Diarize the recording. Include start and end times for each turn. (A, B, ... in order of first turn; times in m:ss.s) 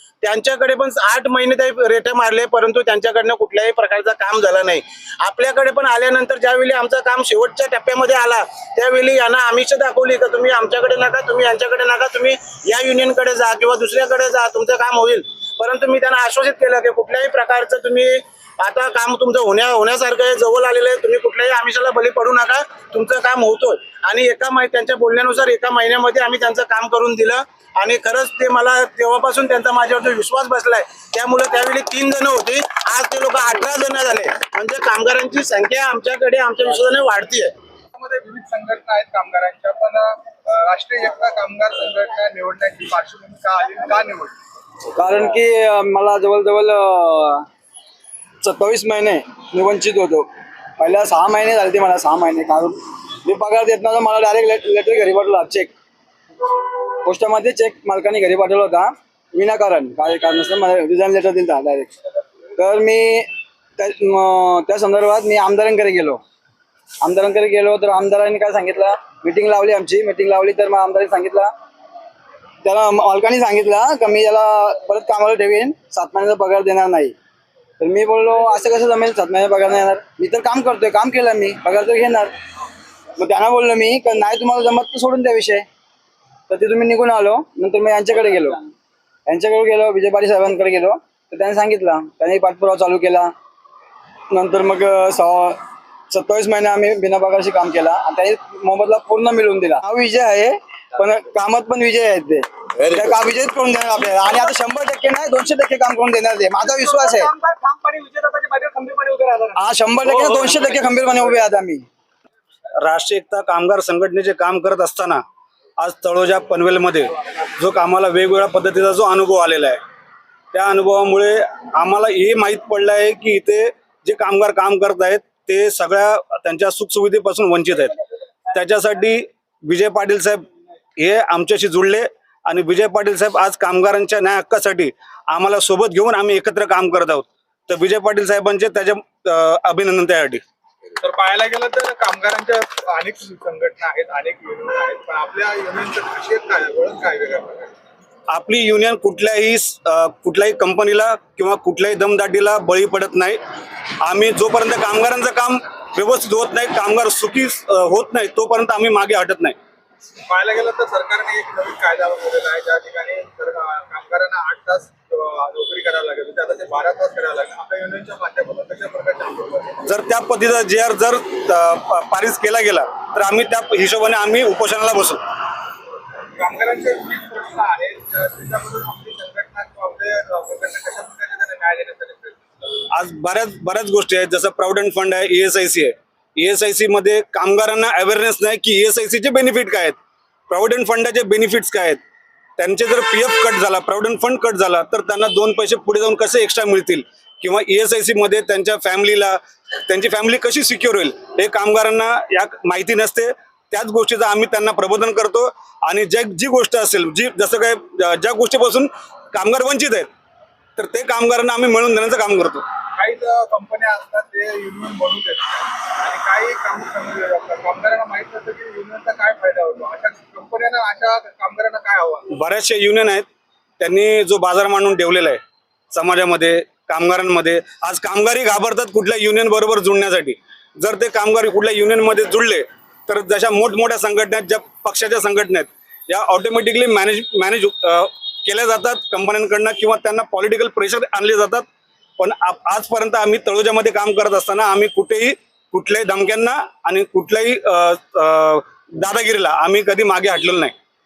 0:00.2-0:37.5 A
0:37.9-0:44.3 B
0:45.0-0:47.4 C
0:48.4-0:50.3 C
0:50.8-0:55.7 C
0:57.0-1:01.9 C
1:02.6-1:06.2 C
1:07.0-1:11.5 C
1:12.6-1:17.1 C
1:17.8-1:22.3 C
1:23.2-1:25.6 C
1:26.5-1:28.6 C
1:29.3-1:33.3 C
1:34.3-1:35.6 C
1:36.1-1:47.3 C
1:47.3-1:49.5 B
1:49.5-1:51.8 C
1:52.8-1:55.2 D
1:55.8-1:59.8 D
2:00.5-2:07.9 D
2:08.5-2:10.4 D
2:11.0-2:20.4 D
2:21.0-2:27.7 B
2:28.3-2:33.4 D
2:34.0-2:39.6 D
2:40.3-2:49.8 B
2:49.8-2:55.2 D
2:56.4-3:02.6 B
3:02.9-3:10.0 D
3:10.5-3:12.0 D
3:12.6-3:30.1 D
3:30.8-3:32.6 D
3:33.0-3:42.2 B
3:42.3-3:43.2 D
3:43.8-3:45.4 D
3:45.9-4:01.6 D
4:02.2-4:10.7 D